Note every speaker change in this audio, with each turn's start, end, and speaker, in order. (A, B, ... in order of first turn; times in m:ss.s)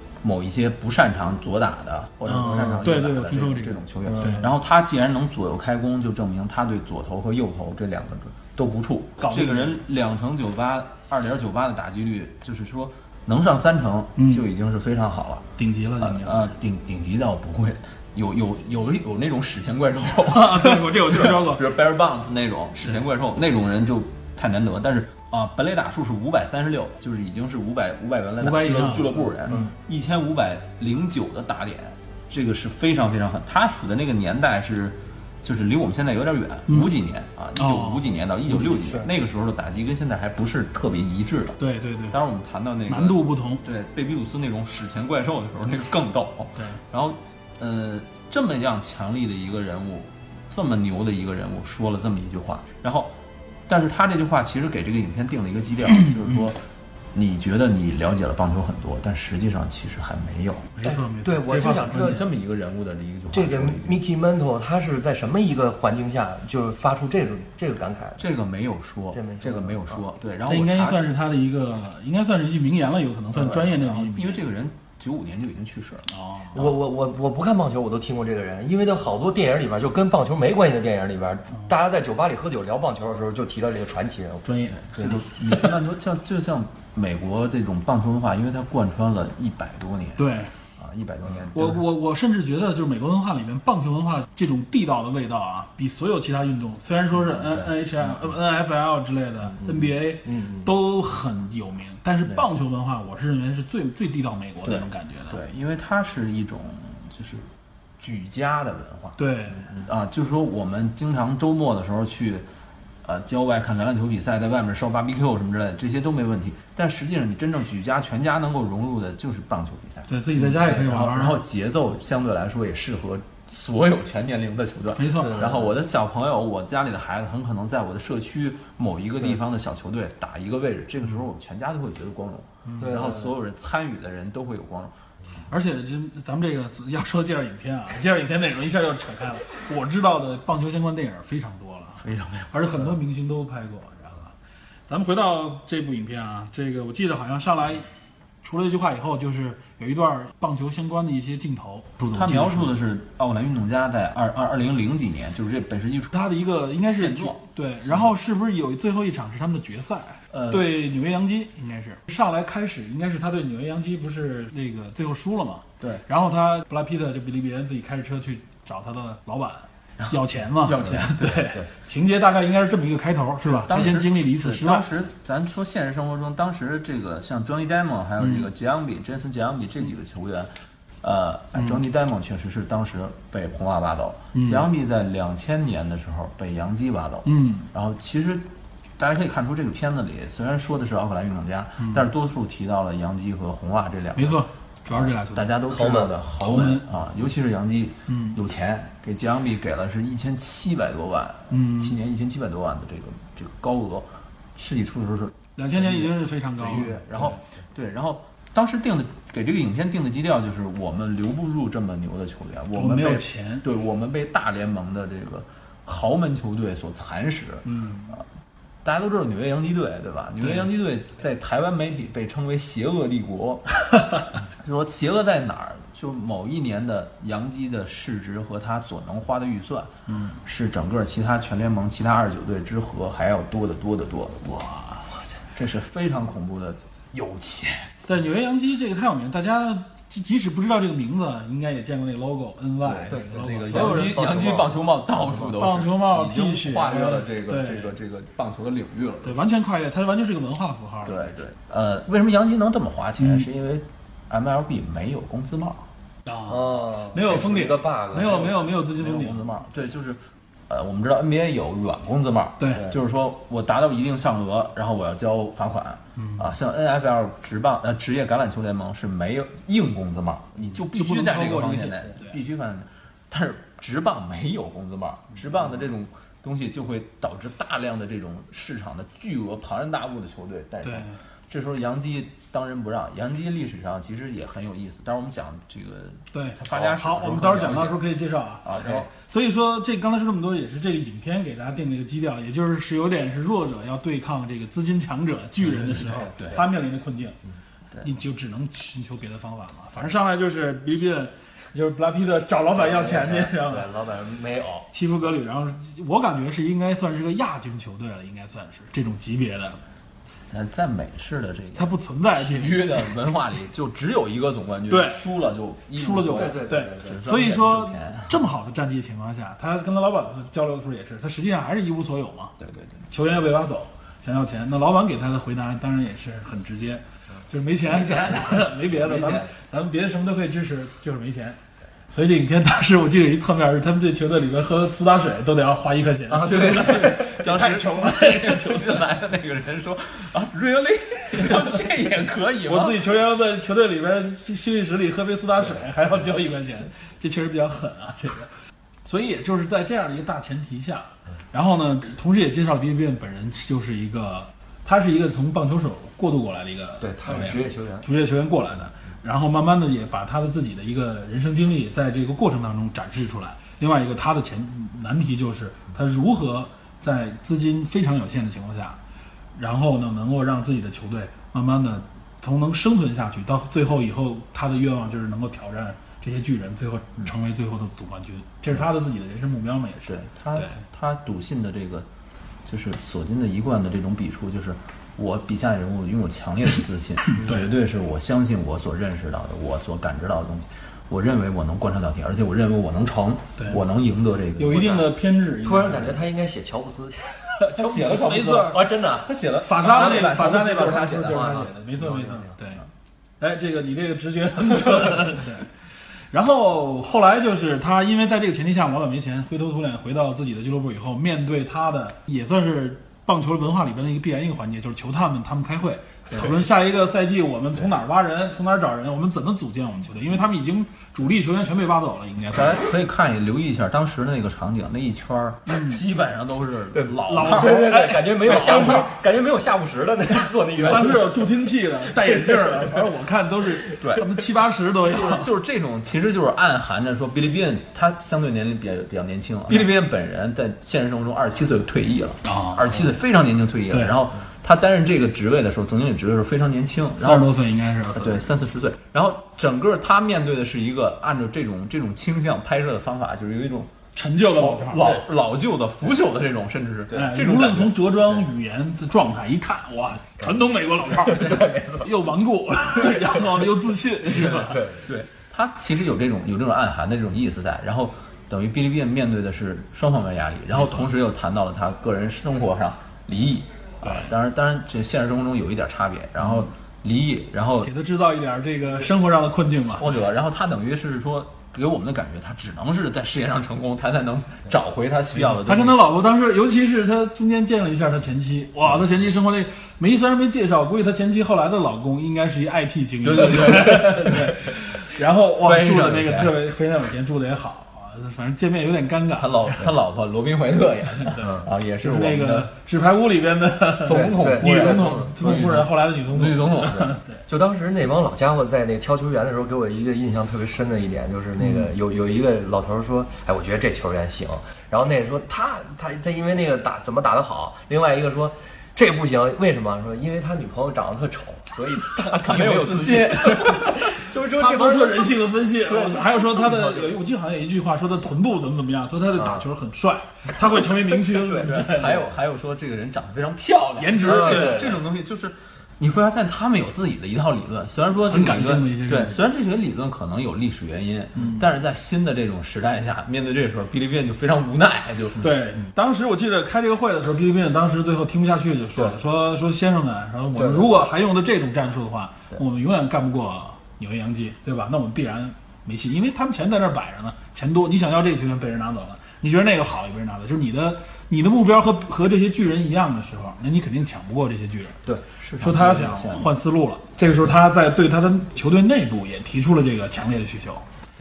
0:00.2-0:41.6 A
0:02.3-0:04.4 B
0:04.1-0:04.4 C
0:09.2-0:09.8 B
0:14.2-0:14.5 B
0:15.6-0:16.5 B
0:20.2-0:21.8 B
0:28.4-0:29.7 B
0:37.6-0:38.1 B
0:41.6-0:42.2 B
0:42.1-0:53.2 A
0:42.9-0:43.6 B
0:53.7-0:56.6 A
0:57.1-1:00.7 A
1:00.7-1:02.3 B
1:00.8-1:02.2 C
1:01.9-1:04.0 A
1:03.3-1:08.2 C
1:08.2-1:11.0 A
1:09.1-1:10.0 C
1:10.5-1:14.4 B
1:13.8-1:16.1 A
1:16.1-1:16.6 B
1:16.5-1:24.5 C
1:24.4-1:25.1 B
1:24.9-1:31.8 A
1:30.2-1:30.5 B
1:31.5-1:45.4 B
1:39.5-1:40.7 C
1:44.6-1:49.2 A
1:49.2-1:49.7 B
1:49.7-1:52.4 A
1:53.0-2:14.9 A
2:00.1-2:01.4 B
2:05.0-2:05.5 B
2:05.1-2:05.7 C
2:12.6-2:13.0 B
2:12.8-2:13.3 C
2:15.5-2:24.3 B
2:22.0-2:22.9 A
2:24.9-2:27.8 B
2:28.4-2:32.7 B
2:32.0-2:36.2 A
2:36.1-2:54.9 B
2:36.8-2:38.1 A
2:40.3-2:40.7 A
2:45.8-2:46.0 A
2:50.0-2:51.5 A
2:53.6-3:00.5 A
2:58.2-2:58.5 B
3:01.0-3:38.2 A
3:04.3-3:04.7 B
3:07.2-3:07.7 B
3:14.1-3:15.6 B
3:15.7-3:16.1 C
3:16.4-3:16.8 B
3:18.1-3:18.4 B
3:21.5-3:22.0 B
3:25.6-3:27.4 B
3:32.7-3:33.6 B
3:37.7-3:38.2 B
3:38.8-3:43.7 A
3:44.4-3:49.9 A
3:50.1-3:50.4 B
3:50.4-3:54.7 A
3:54.4-3:55.1 B
3:55.5-3:57.9 A
3:58.0-4:04.3 B
4:02.8-4:09.4 A
4:03.1-4:04.8 C
4:05.4-4:07.9 B
4:09.2-4:11.3 B
4:11.0-4:15.9 A
4:13.2-4:13.5 B
4:16.2-4:19.5 B
4:16.5-4:18.7 C
4:18.9-4:48.0 A
4:22.6-4:22.9 B
4:26.2-4:26.4 B
4:30.8-4:32.4 B
4:40.8-4:41.2 B
4:46.3-4:57.4 B
4:48.6-4:49.1 A
4:55.6-4:56.6 A
4:56.0-4:56.6 C
4:58.0-5:03.9 B
5:02.7-5:04.9 C
5:04.9-5:09.8 B
5:10.5-5:18.4 A
5:11.7-5:13.0 B
5:14.9-5:15.3 B
5:16.0-5:22.5 B
5:16.3-5:17.2 C
5:22.6-5:23.0 A
5:23.1-5:31.6 B
5:28.9-5:29.5 A
5:32.1-5:39.0 B
5:36.3-5:37.4 C
5:36.3-5:43.0 A
5:42.6-5:48.5 B
5:49.0-6:09.0 B
5:57.0-5:58.1 C
6:09.6-6:20.8 B
6:20.0-6:22.1 A
6:22.6-6:35.1 A
6:27.3-6:27.6 B
6:34.6-6:36.1 B
6:35.6-6:40.4 C
6:37.7-6:41.6 A
6:37.8-6:38.8 B
6:39.6-6:42.8 B
6:41.1-6:42.6 C
6:43.4-6:45.7 B
6:46.3-7:02.8 B
7:02.5-7:09.0 A
7:05.7-7:06.0 B
7:06.9-7:11.4 C
7:07.2-7:09.1 B
7:10.8-7:15.5 B
7:12.2-7:12.9 C
7:14.0-7:14.3 A
7:15.0-7:27.5 A
7:22.4-7:23.0 B
7:27.2-7:28.5 B
7:28.1-7:38.0 A
7:34.1-7:35.1 B
7:37.1-7:44.9 B
7:41.1-7:42.1 C
7:44.4-7:57.9 A
7:44.6-7:45.1 C
7:50.7-7:51.1 B
7:57.8-8:00.2 B
7:59.9-8:06.0 A
8:05.4-8:19.9 B
8:13.2-8:14.8 A
8:15.6-8:16.6 A
8:19.3-8:22.7 A
8:21.3-8:27.4 B
8:21.4-8:21.7 C
8:24.0-8:27.2 A
8:24.0-8:25.7 C
8:27.5-8:47.1 C
8:42.1-8:44.0 A
8:44.3-8:52.3 B
8:49.4-8:49.6 C
8:51.3-8:51.8 C
8:51.6-9:05.5 A
8:54.0-8:55.0 B
8:54.2-8:55.0 C
8:58.3-8:59.4 B
9:05.4-9:25.0 B
9:10.5-9:10.9 C
9:25.4-9:26.5 A
9:25.6-9:30.8 B